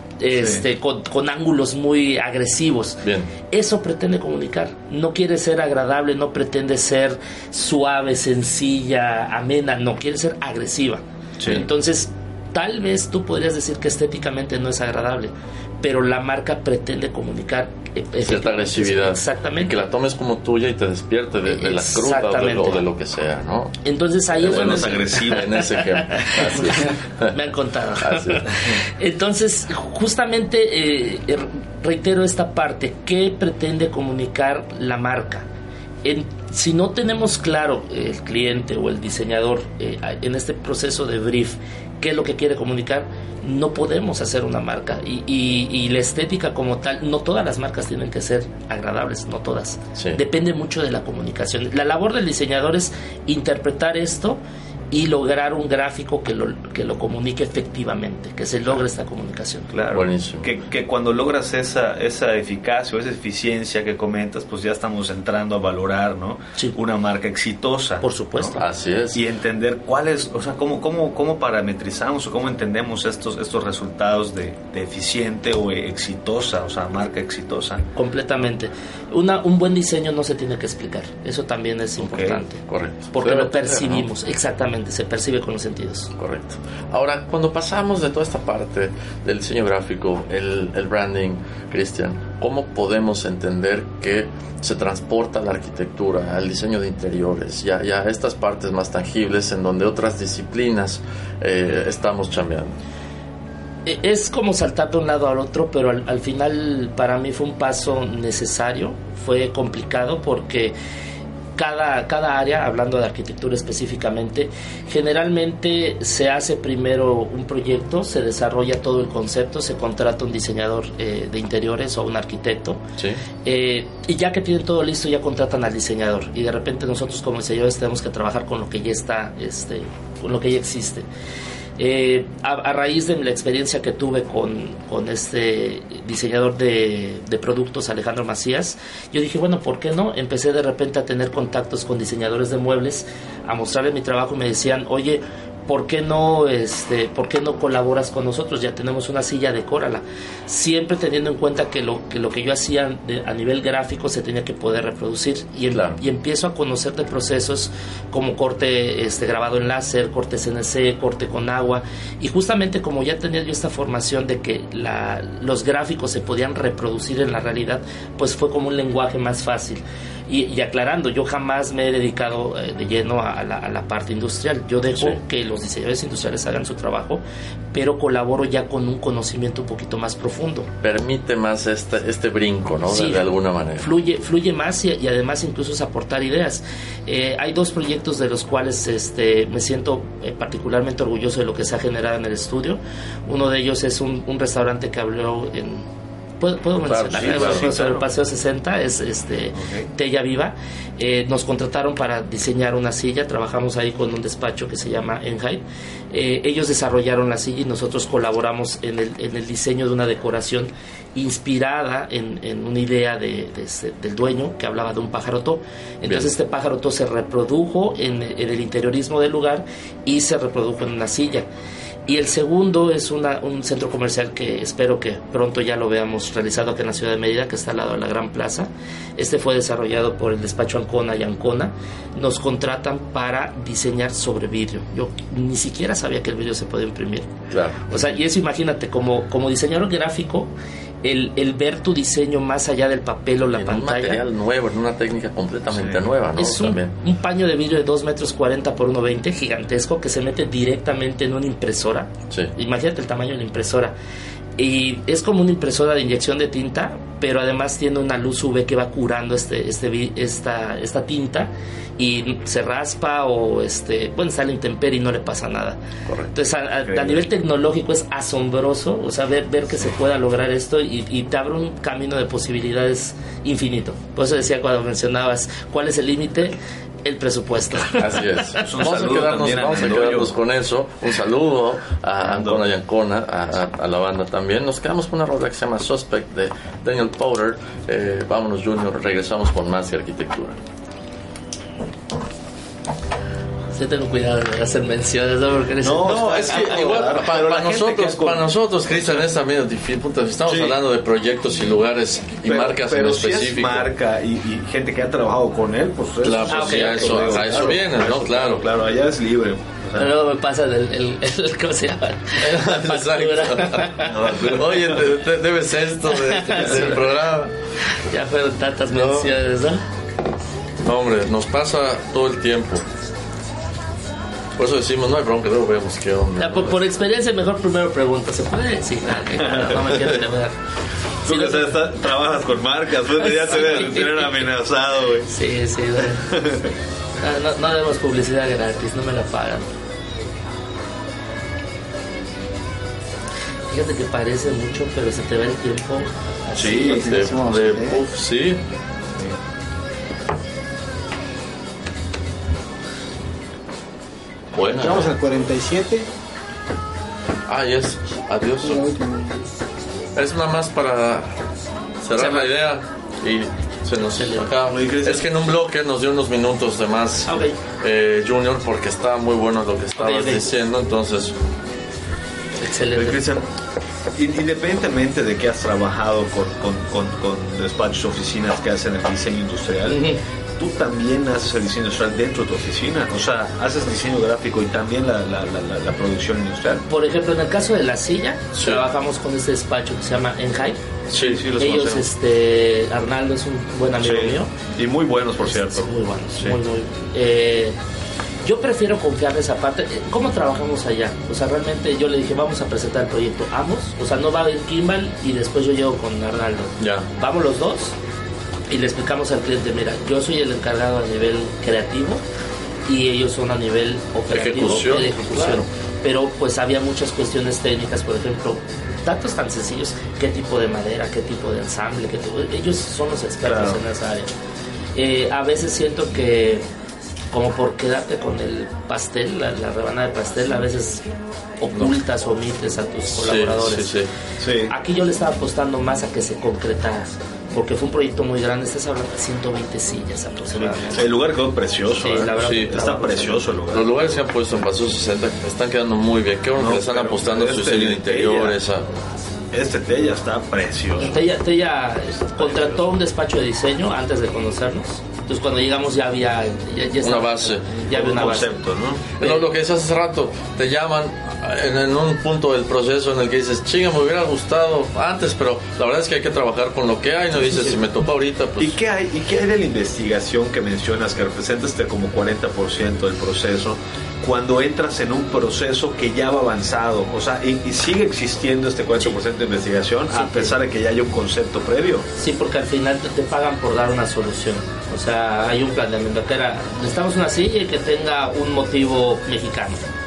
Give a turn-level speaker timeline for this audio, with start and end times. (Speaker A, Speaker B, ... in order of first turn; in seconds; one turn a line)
Speaker A: 0.2-19.8
Speaker B: 0.4-0.6
Speaker C: 3.0-3.3
Speaker C: 18.2-23.8
Speaker A: 21.5-22.8
Speaker A: 23.8-35.5
Speaker C: 24.3-27.4
Speaker B: 24.4-25.6
Speaker C: 28.0-28.4
Speaker A: 36.0-54.4
Speaker C: 50.0-50.2
Speaker A: 54.9-59.7
Speaker B: 59.7-68.6
Speaker C: 59.9-60.5
Speaker A: 68.0-68.6
Speaker C: 68.5-69.2
Speaker B: 69.1-77.9
Speaker A: 78.0-82.6
Speaker B: 82.0-82.4
Speaker C: 82.7-84.1
Speaker A: 83.1-86.1
Speaker C: 86.2-102.8
Speaker A: 103.9-110.8
Speaker A: 111.6-122.8
Speaker C: 123.0-123.2
Speaker A: 123.4-131.1
Speaker A: 131.8-177.2
Speaker C: 155.7-156.0
Speaker A: 177.7-180.7
Speaker C: 180.8-183.9
Speaker A: 182.9-183.3
Speaker A: 183.8-195.8
Speaker A: 196.4-221.5
Speaker C: 196.9-197.7
Speaker B: 197.2-198.1
Speaker B: 199.6-199.9
Speaker C: 216.0-216.3
Speaker A: 222.1-237.3
Speaker C: 237.5-237.9
Speaker A: 237.9-240.5
Speaker A: 241.0-244.2
Speaker C: 243.4-246.9
Speaker B: 245.7-246.0
Speaker A: 246.4-253.9
Speaker A: 254.6-265.8
Speaker C: 266.1-266.3
Speaker A: 266.3-278.6
Speaker B: 266.9-267.2
Speaker C: 277.9-290.6
Speaker B: 278.6-280.3
Speaker B: 282.2-282.6
Speaker A: 293.7-297.1
Speaker B: 295.8-299.2
Speaker C: 296.0-303.9
Speaker B: 300.5-300.8
Speaker B: 302.4-310.1
Speaker C: 306.2-308.7
Speaker A: 306.5-307.8
Speaker A: 309.9-314.1
Speaker C: 312.4-317.5
Speaker B: 314.0-315.1
Speaker A: 316.1-317.0
Speaker A: 317.9-319.8
Speaker C: 318.9-319.3
Speaker C: 320.8-322.9
Speaker C: 324.6-326.8
Speaker A: 326.4-330.6
Speaker B: 329.3-329.9
Speaker B: 331.3-335.3
Speaker A: 331.3-331.7
Speaker A: 333.2-334.5
Speaker A: 335.3-336.4
Speaker B: 336.3-336.7
Speaker A: 337.2-339.7
Speaker A: 343.7-347.1
Speaker C: 346.6-348.6
Speaker D: 346.6-348.0
Speaker C: 354.5-355.1
Speaker D: 354.7-356.1
Speaker C: 357.5-358.9
Speaker D: 358.6-359.4
Speaker C: 360.1-361.4
Speaker C: 362.0-371.4
Speaker A: 362.2-362.5
Speaker A: 364.2-364.5
Speaker B: 364.7-365.3
Speaker A: 367.3-367.6
Speaker A: 369.9-370.5
Speaker A: 372.6-373.2
Speaker B: 372.9-373.5
Speaker B: 374.1-380.0
Speaker A: 379.9-380.2
Speaker B: 380.6-386.9
Speaker A: 386.9-390.8
Speaker C: 388.6-388.9
Speaker C: 391.1-392.1
Speaker B: 391.1-391.6
Speaker A: 391.5-394.5
Speaker B: 394.0-396.6
Speaker A: 395.4-397.8
Speaker A: 398.4-407.9
Speaker C: 406.8-407.1
Speaker A: 408.7-412.2
Speaker A: 412.9-424.3
Speaker C: 414.3-415.7
Speaker B: 423.4-423.8
Speaker A: 424.9-426.7
Speaker A: 427.3-431.1
Speaker A: 431.6-433.9
Speaker C: 433.2-434.1
Speaker B: 434.4-434.7
Speaker A: 434.7-441.1
Speaker B: 440.6-443.9
Speaker A: 442.0-443.4
Speaker C: 442.4-442.8
Speaker C: 443.7-449.0
Speaker B: 446.6-448.6
Speaker B: 449.5-451.3
Speaker A: 451.0-458.6
Speaker B: 452.4-452.9
Speaker C: 457.0-457.8
Speaker B: 457.9-459.2
Speaker C: 459.2-468.8
Speaker B: 467.4-467.8
Speaker B: 468.6-482.1
Speaker A: 480.1-480.6
Speaker A: 482.2-489.8